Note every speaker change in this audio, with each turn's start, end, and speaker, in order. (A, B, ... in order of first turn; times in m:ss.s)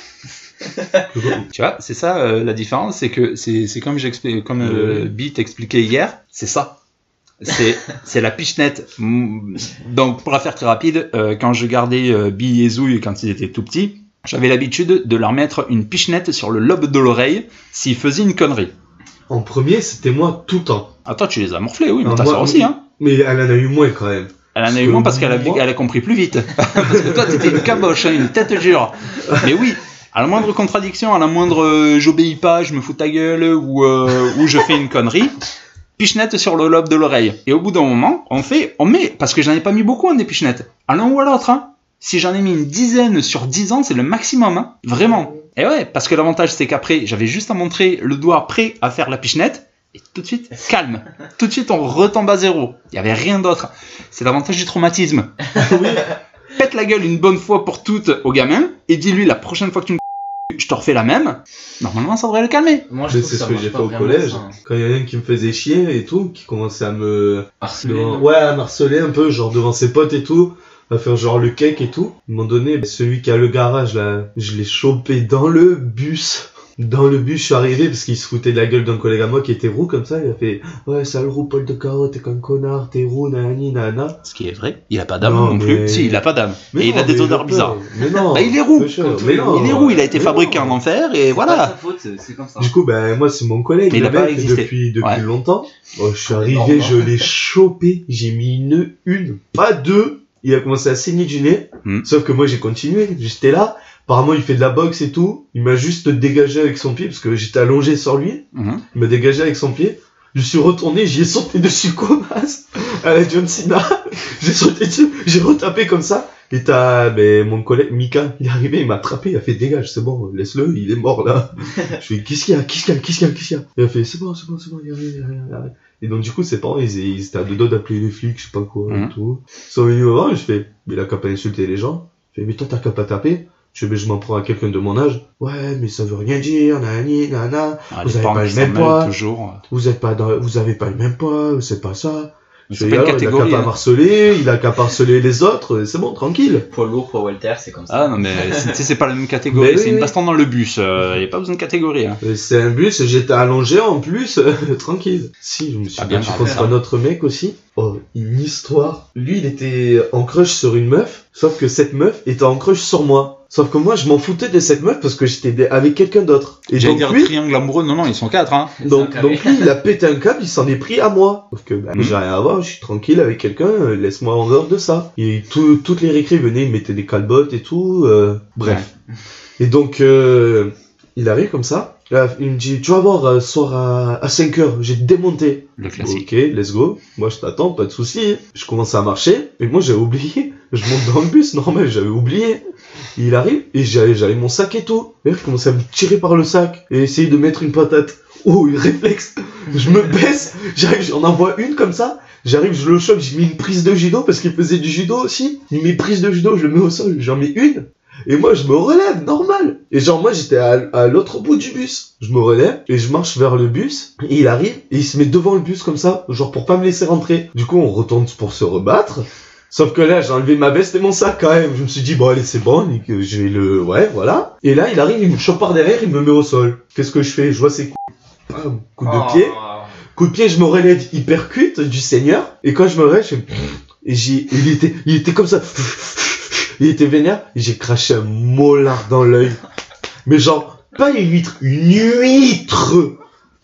0:00.6-0:01.0 A
0:01.1-0:01.5 B
0:01.5-0:06.7 C
0:04.6-0:05.1 B
0:07.4-0:18.7 C
0:19.3-0:20.9 B
0:21.0-0:22.8 C
0:22.0-0:25.6 B
0:24.5-0:35.3 C
0:27.0-0:27.6 B
0:36.0-0:55.4 C
0:55.5-0:56.0 B
0:55.6-0:55.8 A
0:56.5-1:02.9 C
1:02.9-1:04.5 A
1:03.1-1:24.2 B
1:07.6-1:08.3 A
1:24.2-1:27.8 C
1:25.2-1:30.8 B
1:28.3-1:31.7 C
1:29.0-1:30.4 A
1:31.3-1:32.7 A
1:32.6-2:19.1 B
1:33.9-1:35.2 C
1:36.3-1:37.1 A
1:48.5-1:48.8 C
2:08.9-2:09.1 C
2:17.9-2:19.6 C
2:19.7-2:26.6 B
2:22.7-2:23.7 C
2:26.7-2:28.8 A
2:27.9-2:32.2 C
2:29.5-2:30.1 B
2:32.2-2:47.3 B
2:36.0-2:36.8 C
2:36.2-2:36.8 A
2:46.7-2:48.7 C
2:48.8-2:49.7 A
2:48.8-2:58.8 B
2:58.6-2:58.9 C
2:59.6-3:12.6 B
3:05.8-3:06.3 C
3:13.2-3:49.6 B
3:49.0-3:49.9 A
3:50.1-3:59.6 B
4:00.2-4:03.2 B